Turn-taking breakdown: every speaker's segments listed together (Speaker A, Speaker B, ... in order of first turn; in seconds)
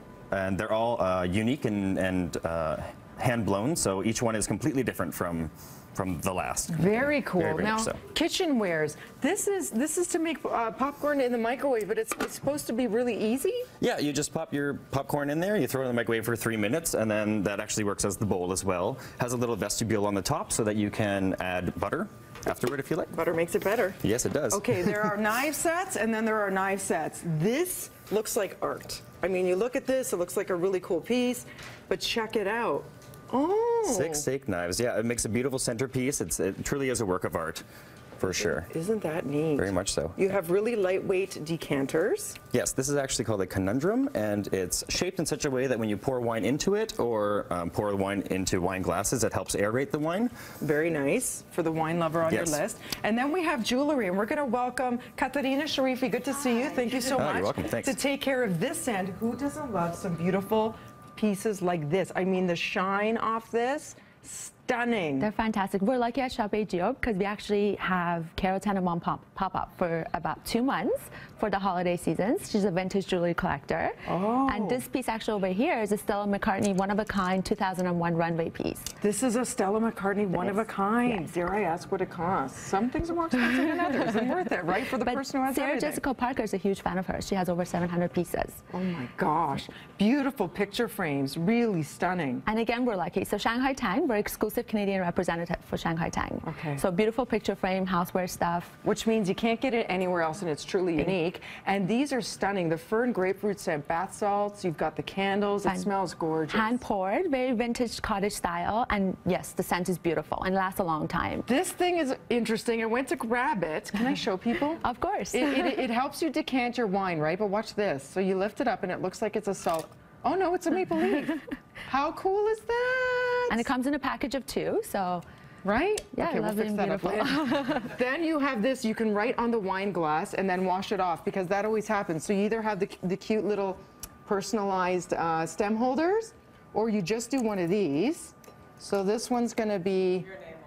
Speaker A: 0.3-8.0, 13.8-23.1, 24.0-24.9, 33.9-37.6, 38.2-38.7, 39.6-40.2, 42.5-50.3, 52.2-52.6, 57.1-58.0
Speaker B: 6.7-13.7, 23.1-24.0, 24.5-34.2, 38.2-42.4, 50.6-65.3, 74.1-74.8, 79.0-86.0, 88.7-92.4, 96.4-96.8, 98.8-106.8, 111.5-123.7, 125.6-140.3
Speaker C: 56.4-57.1, 65.2-78.9, 83.9-84.1, 85.0-88.6, 92.5-98.8, 106.5-111.5, 114.8-115.8, 123.5-125.2, 126.1-127.9